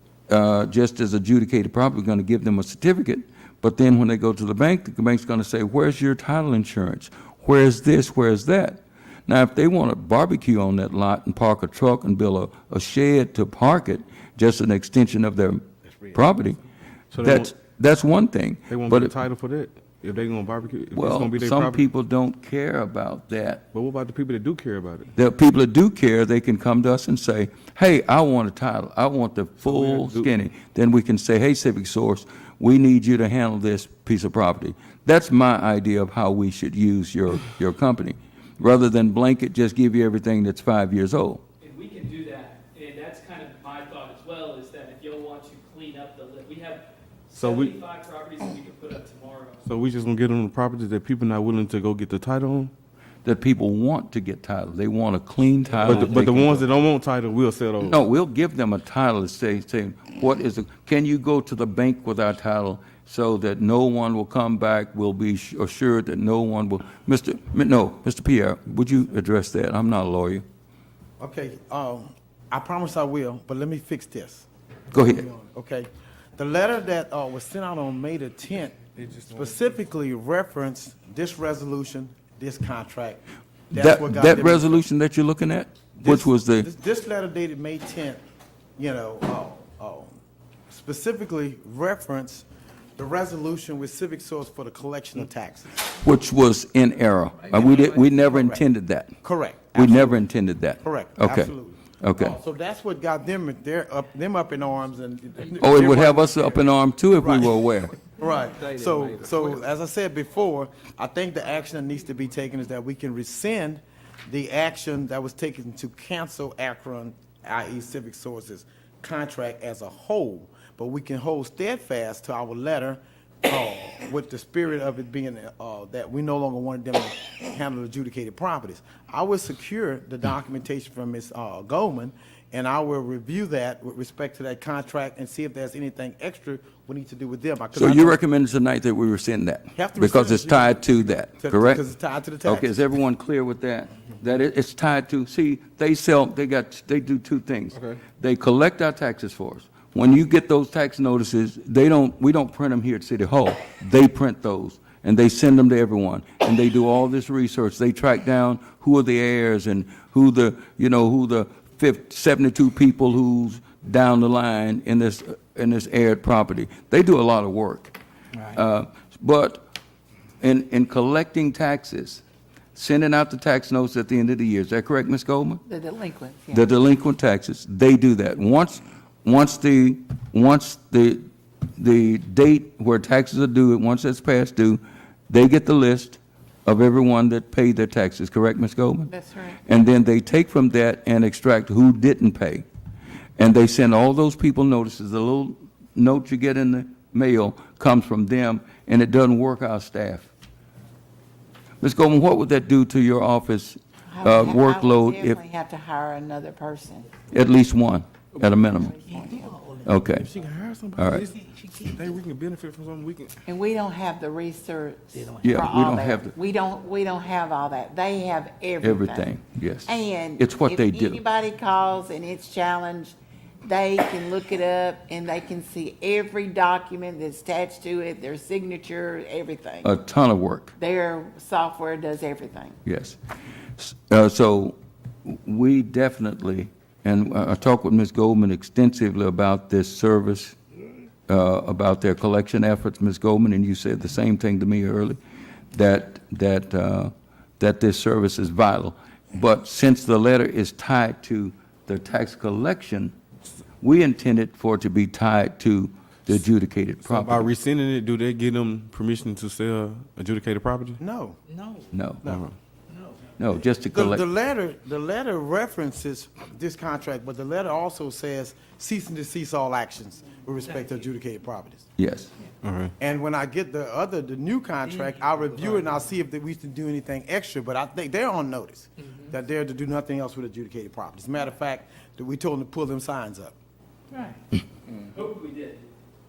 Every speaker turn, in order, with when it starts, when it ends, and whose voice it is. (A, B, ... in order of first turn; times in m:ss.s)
0:00.3-0:16.6 A
0:17.1-0:17.5 B
0:17.2-0:19.1 A
0:18.7-0:21.8 B
0:20.9-0:23.6 A
0:23.7-0:25.1 B
0:25.1-0:41.4 A
0:29.6-0:30.3 B
0:41.6-0:49.6 C
0:47.3-0:47.8 B
0:49.6-0:52.7 B
0:53.2-0:56.7 A
0:55.8-0:58.0 B
0:57.8-1:10.4 A
1:11.2-1:14.5 D
1:14.9-1:15.2 A
1:15.1-1:24.8 D
1:19.0-1:19.6 B
1:23.7-1:26.7 A
1:26.0-1:28.2 D
1:28.8-1:30.1 D
1:30.7-1:32.4 D
1:33.0-1:35.7 D
1:35.9-1:39.2 A
1:37.5-1:38.6 D
1:39.2-1:40.2 D
1:39.7-1:42.4 A
1:40.8-1:46.6 D
1:45.6-1:48.0 A
1:47.2-2:18.2 D
2:17.7-2:21.8 A
2:19.7-2:22.8 D
2:22.4-2:49.6 A
2:27.7-2:28.0 B
2:50.4-2:52.2 A
2:52.7-2:55.6 A
2:55.6-2:56.7 E
2:56.5-3:01.2 A
3:01.8-3:09.1 A
3:09.1-3:09.6 E
3:09.6-3:12.6 A
3:13.4-3:20.3 A
3:21.8-3:25.4 A
3:24.1-3:27.1 E
3:27.3-3:29.0 A
3:28.7-3:29.8 E
3:29.8-3:30.3 A
3:30.1-3:33.3 B
3:31.0-3:31.3 A
3:33.5-3:39.3 E
3:35.4-3:36.3 A
3:38.8-3:41.2 A
3:39.8-3:49.9 E
3:49.8-3:50.7 A
3:50.8-3:52.8 E
3:52.8-3:53.2 A
3:53.8-4:00.6 A
4:01.3-4:05.2 A
4:05.7-4:13.1 A
4:13.8-4:17.5 A
4:17.0-4:21.0 B
4:21.0-4:21.4 D
4:21.9-4:22.3 A
4:22.3-4:22.5 B
4:23.4-4:24.2 A
4:23.9-4:31.9 D
4:32.0-4:32.3 A
4:32.6-4:32.9 B
4:33.0-4:43.5 D
4:45.0-4:45.9 C